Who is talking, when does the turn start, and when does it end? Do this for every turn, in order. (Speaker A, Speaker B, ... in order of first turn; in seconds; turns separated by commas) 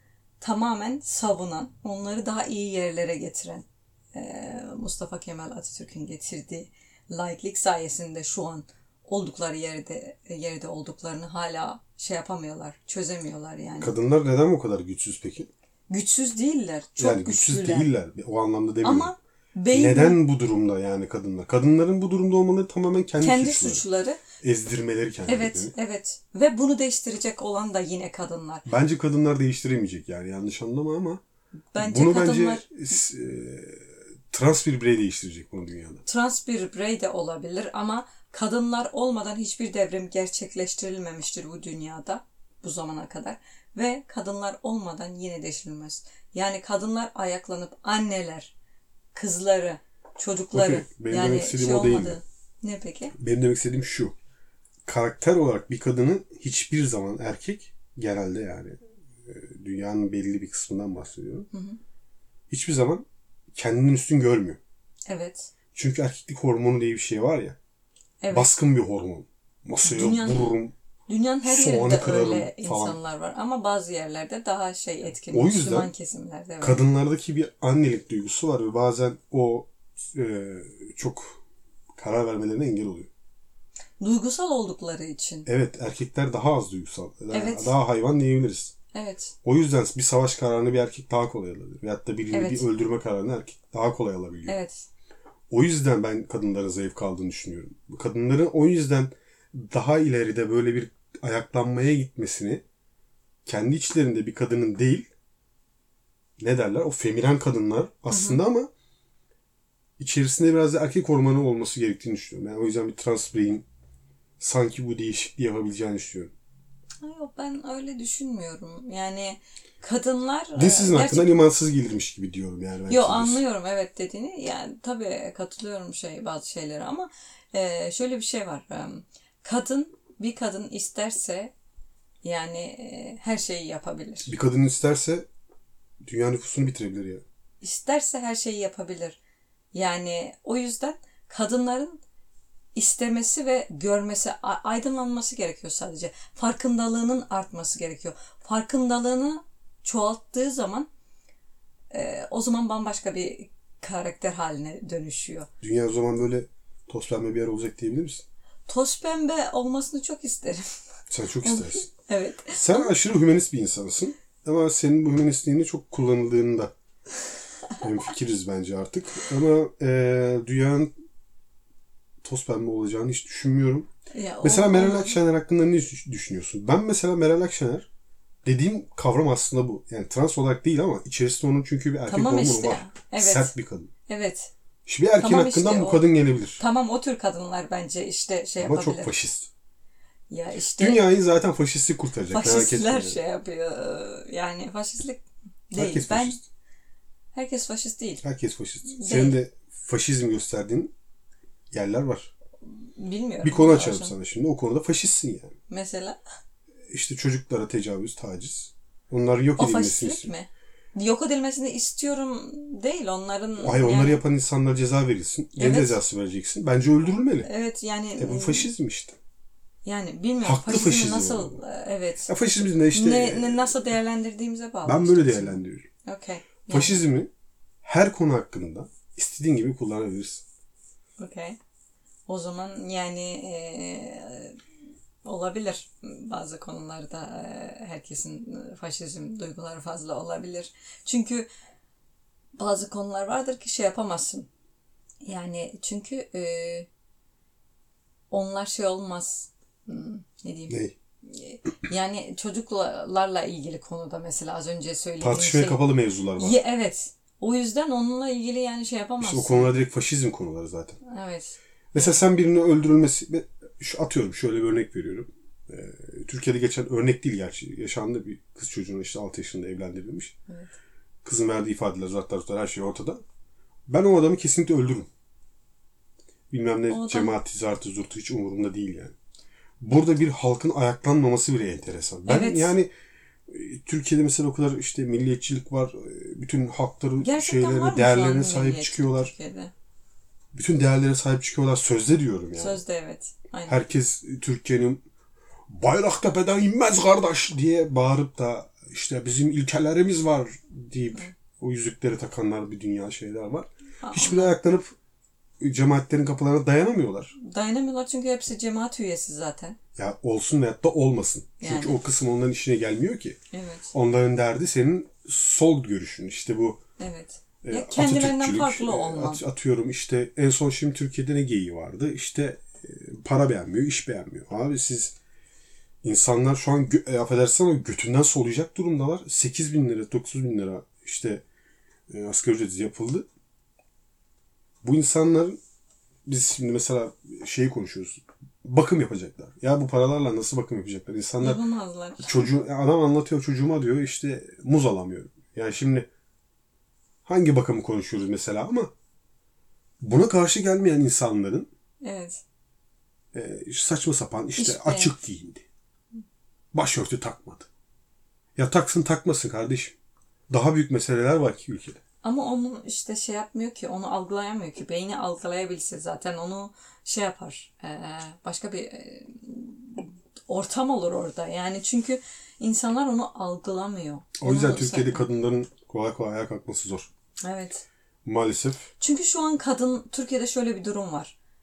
Speaker A: 0.4-13.9, Speaker B: 13.8-15.5, Speaker A: 15.9-17.9, Speaker B: 17.0-19.1, Speaker A: 18.8-20.2, Speaker B: 19.7-23.8, Speaker A: 23.2-24.2, Speaker B: 24.4-25.7, Speaker A: 25.3-28.7, Speaker B: 28.7-31.2, Speaker A: 31.7-32.7, Speaker B: 31.8-36.0, Speaker A: 36.1-48.5, Speaker A: 49.1-53.1, Speaker B: 50.5-52.2, Speaker B: 53.2-54.1, Speaker B: 54.9-61.5, Speaker A: 61.5-61.8, Speaker B: 62.5-64.6, Speaker A: 65.1-65.5, Speaker B: 65.7-67.6, Speaker A: 68.2-68.5, Speaker B: 68.3-70.7, Speaker A: 69.8-70.5, Speaker A: 71.1-76.8, Speaker B: 71.4-73.0, Speaker B: 75.3-75.9, Speaker B: 76.6-81.4, Speaker B: 82.0-83.1, Speaker A: 84.0-85.5, Speaker B: 85.5-88.7, Speaker A: 87.3-87.7, Speaker A: 88.9-89.3, Speaker B: 89.4-94.6, Speaker A: 92.3-92.7, Speaker A: 94.5-94.9, Speaker B: 95.5-102.6, Speaker B: 103.5-105.1, Speaker B: 106.4-108.7, Speaker A: 108.1-108.4, Speaker B: 110.0-113.7, Speaker B: 114.4-116.3, Speaker A: 117.0-121.4, Speaker B: 120.6-123.4, Speaker A: 122.9-131.5, Speaker A: 132.2-134.3, Speaker B: 134.3-135.3, Speaker B: 136.0-137.2, Speaker A: 137.6-139.2, Speaker A: 139.7-142.0, Speaker A: 142.8-150.9, Speaker A: 151.9-155.5, Speaker B: 155.6-158.2, Speaker A: 158.7-160.7, Speaker B: 161.1-161.9, Speaker A: 161.4-162.9, Speaker B: 162.5-166.7, Speaker B: 167.8-170.9, Speaker B: 172.2-173.9, Speaker A: 174.1-175.2, Speaker B: 174.4-177.9, Speaker B: 178.4-183.9, Speaker A: 182.1-183.5, Speaker A: 184.1-184.5, Speaker B: 184.9-186.6, Speaker A: 185.2-186.1, Speaker A: 186.6-189.1, Speaker B: 188.6-189.5, Speaker A: 190.3-191.1, Speaker B: 190.8-193.2, Speaker A: 192.3-196.4, Speaker B: 195.8-196.4, Speaker A: 197.3-198.2, Speaker B: 198.2-200.9, Speaker A: 198.9-199.4, Speaker B: 201.7-202.3, Speaker A: 202.8-204.1, Speaker B: 203.4-205.5, Speaker A: 205.7-206.2, Speaker B: 206.9-210.3, Speaker A: 209.6-214.2, Speaker B: 213.6-217.5, Speaker A: 215.6-216.0, Speaker A: 217.4-218.7, Speaker B: 218.2-219.2, Speaker A: 219.8-222.3, Speaker B: 220.4-221.6, Speaker B: 222.3-223.8, Speaker A: 222.9-227.0, Speaker B: 224.8-225.9, Speaker B: 226.7-227.3, Speaker B: 227.8-230.4, Speaker A: 231.2-231.6, Speaker A: 232.3-234.6, Speaker A: 235.2-241.5, Speaker A: 242.6-244.5, Speaker A: 245.2-246.9, Speaker A: 248.3-259.7, Speaker B: 250.7-250.9, Speaker B: 255.2-256.6, Speaker B: 259.2-261.0, Speaker A: 261.1-262.2, Speaker B: 261.9-270.4, Speaker B: 271.2-273.2, Speaker B: 273.9-275.1, Speaker B: 276.5-279.1, Speaker A: 276.9-277.3, Speaker B: 279.8-282.9, Speaker A: 282.3-282.7, Speaker B: 283.5-289.3, Speaker A: 287.2-289.7, Speaker B: 290.5-292.8, Speaker A: 292.6-293.8, Speaker B: 293.7-295.0, Speaker B: 295.7-304.9, Speaker A: 304.0-304.6, Speaker B: 305.6-307.3, Speaker A: 307.4-309.8, Speaker B: 310.0-313.4, Speaker A: 311.6-312.0, Speaker A: 313.5-313.9, Speaker B: 313.9-316.8, Speaker A: 317.0-319.4, Speaker B: 317.6-325.1, Speaker B: 326.0-331.4, Speaker B: 332.1-333.3, Speaker B: 334.8-335.6, Speaker B: 336.3-341.6, Speaker A: 341.4-342.5, Speaker B: 342.2-346.1, Speaker B: 347.2-348.9, Speaker B: 350.0-351.7, Speaker A: 352.0-352.4, Speaker B: 353.3-355.7, Speaker A: 354.6-355.1, Speaker B: 356.7-357.7, Speaker B: 358.6-359.9, Speaker B: 360.5-362.0, Speaker A: 362.2-375.3, Speaker B: 374.4-377.1, Speaker A: 377.4-377.8, Speaker B: 378.2-378.9, Speaker A: 379.0-381.4